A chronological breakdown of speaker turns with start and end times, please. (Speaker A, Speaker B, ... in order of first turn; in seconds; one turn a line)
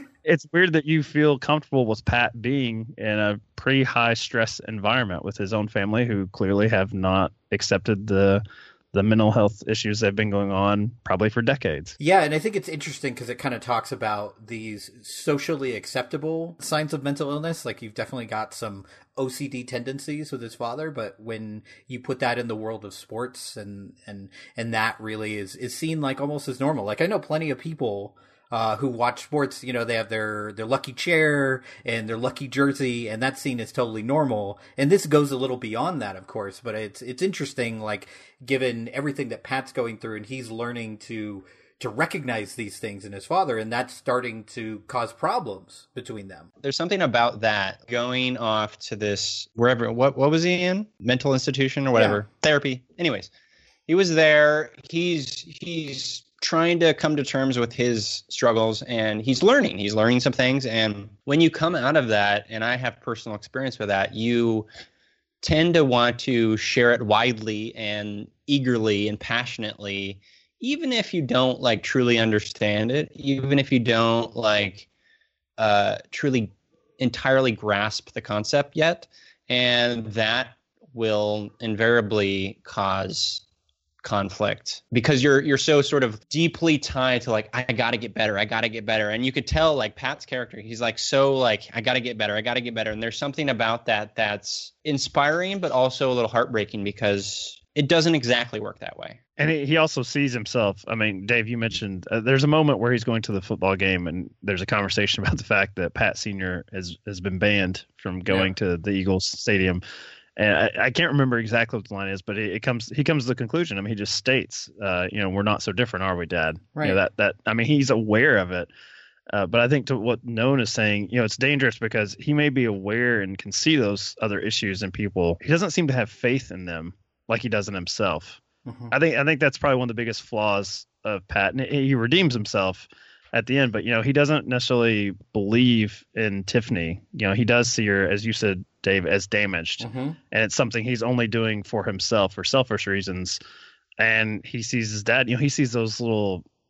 Speaker A: 0.2-12.0
Speaker B: 12.0-46.5
Speaker C: 46.6-53.3
Speaker B: 51.9-52.2
Speaker C: 53.9-64.7
Speaker C: 65.4-74.9
Speaker C: 75.6-83.4
Speaker C: 84.0-99.2
Speaker A: 99.4-109.8
Speaker B: 108.3-108.5
Speaker A: 110.4-118.7
Speaker A: 119.3-143.4
Speaker B: 128.7-128.9
Speaker B: 139.8-140.2
Speaker A: 144.0-146.4